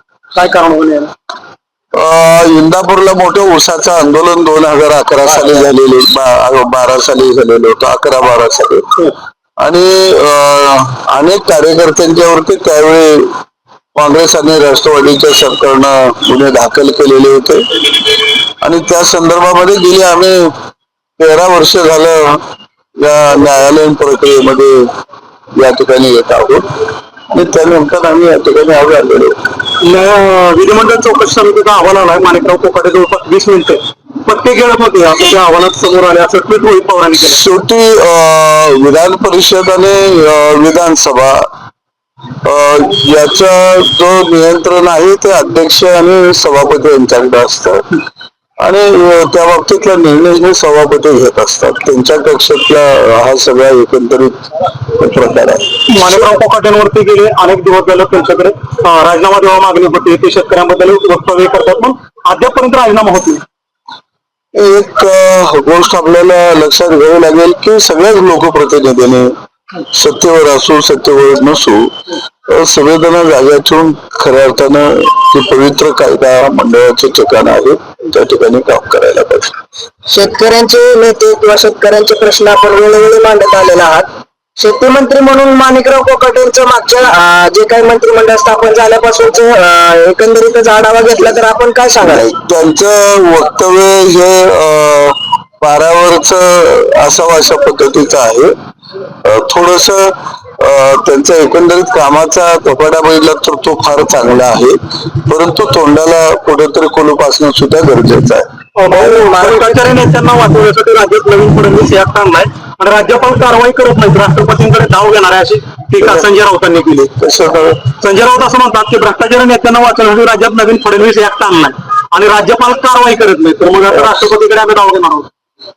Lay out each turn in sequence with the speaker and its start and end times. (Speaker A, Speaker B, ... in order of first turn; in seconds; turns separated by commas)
Speaker A: 0.3-1.1, Speaker B: 1.9-8.9, Speaker B: 9.6-13.4, Speaker B: 13.9-20.5, Speaker B: 21.2-22.4, Speaker B: 23.0-24.9, Speaker B: 25.6-26.6, Speaker B: 27.3-29.4, Speaker A: 29.8-37.4, Speaker B: 37.2-41.5, Speaker B: 42.4-47.8, Speaker B: 48.6-55.8, Speaker A: 55.9-63.4, Speaker B: 64.5-69.3, Speaker B: 69.9-71.9, Speaker B: 72.5-79.5, Speaker C: 80.1-92.3, Speaker B: 92.0-98.5, Speaker B: 99.2-108.5, Speaker A: 108.8-117.1, Speaker C: 109.0-109.6, Speaker B: 117.1-117.9, Speaker A: 118.0-125.3